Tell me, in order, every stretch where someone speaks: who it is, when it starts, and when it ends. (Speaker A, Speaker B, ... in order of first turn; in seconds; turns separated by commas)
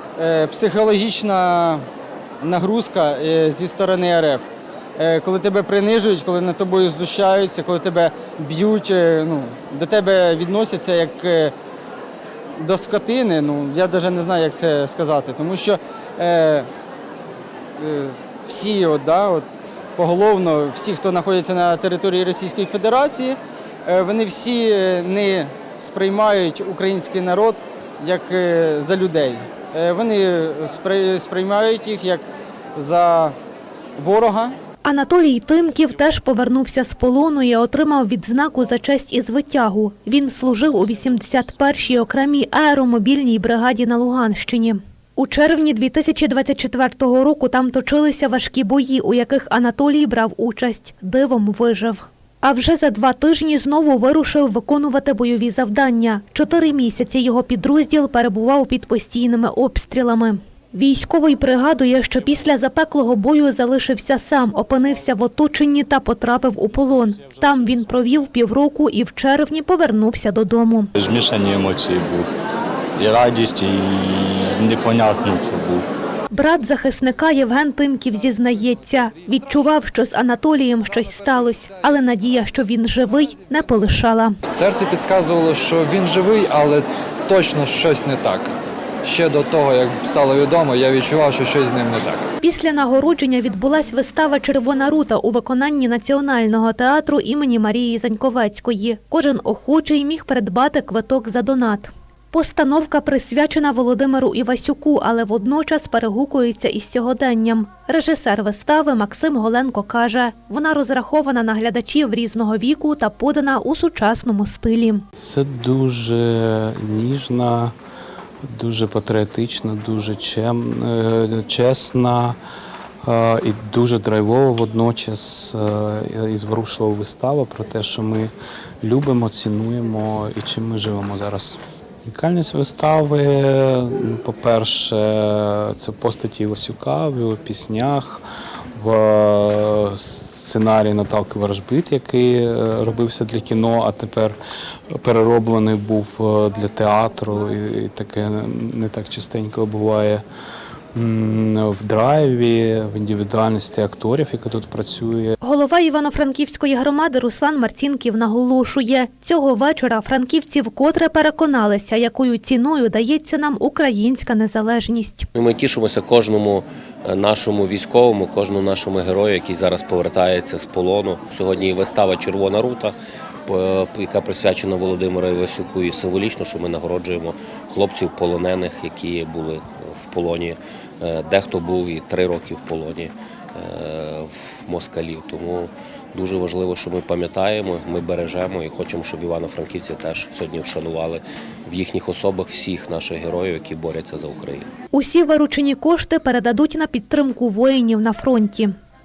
Speaker A: 0.2-1.8, Speaker A: 2.4-4.5, Speaker A: 5.0-11.5, Speaker A: 12.6-16.7, Speaker A: 17.8-33.4, Speaker A: 34.0-34.5, Speaker B: 34.9-70.9, Speaker C: 71.0-72.3, Speaker C: 73.0-73.8, Speaker C: 74.7-75.8, Speaker B: 76.3-84.3, Speaker D: 84.5-92.3, Speaker B: 92.4-115.0, Speaker E: 115.2-117.7, Speaker E: 118.5-122.4, Speaker E: 123.0-138.2, Speaker E: 138.8-144.4, Speaker E: 144.9-150.2, Speaker E: 150.9-155.4, Speaker B: 155.4-165.3, Speaker F: 165.3-172.9, Speaker F: 173.5-194.7, Speaker B: 194.9-198.7